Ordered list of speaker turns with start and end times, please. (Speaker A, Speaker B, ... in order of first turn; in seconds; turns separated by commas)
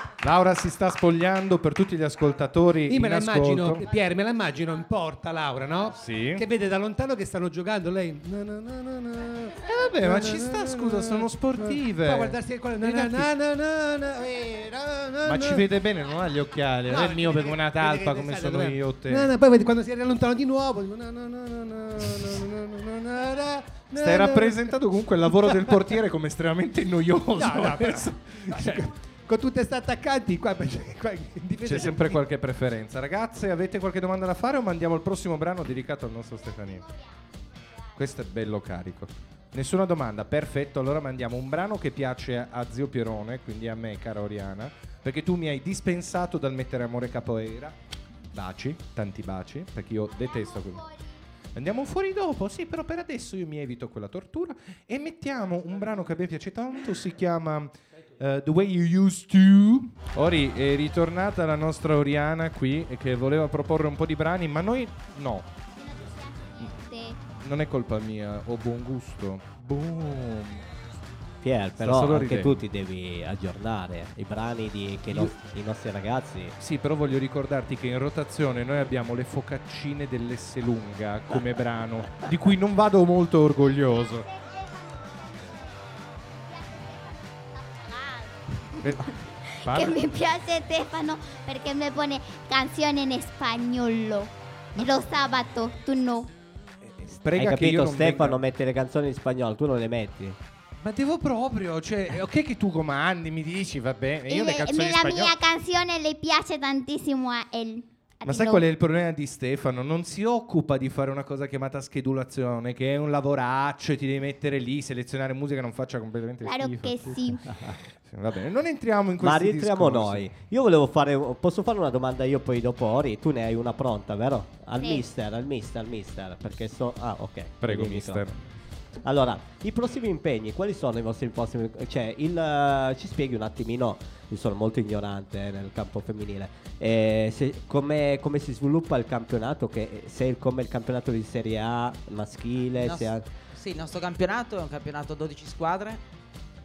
Speaker A: 0.2-3.9, Speaker B: 2.9-15.7, Speaker A: 5.9-6.4, Speaker A: 9.6-13.3, Speaker A: 15.2-19.3, Speaker B: 16.8-26.0, Speaker A: 23.9-28.9, Speaker B: 27.3-32.2, Speaker A: 31.6-36.9, Speaker C: 36.7-37.0, Speaker A: 38.0-47.7, Speaker A: 48.3-50.9, Speaker C: 50.1-51.2, Speaker A: 51.5-65.5, Speaker C: 65.8-67.2, Speaker A: 67.3-70.6, Speaker D: 71.4-76.5, Speaker A: 71.8-72.6, Speaker A: 76.6-84.3, Speaker C: 87.8-88.3, Speaker A: 88.8-90.2, Speaker C: 88.8-96.3, Speaker A: 94.8-95.1, Speaker A: 96.8-98.4, Speaker D: 97.3-100.4, Speaker A: 100.8-105.4, Speaker C: 104.3-108.7, Speaker A: 108.2-120.3, Speaker C: 116.4-117.4, Speaker D: 119.2-128.2, Speaker C: 124.8-125.1, Speaker A: 127.6-128.4, Speaker D: 129.0-143.3, Speaker E: 142.7-146.0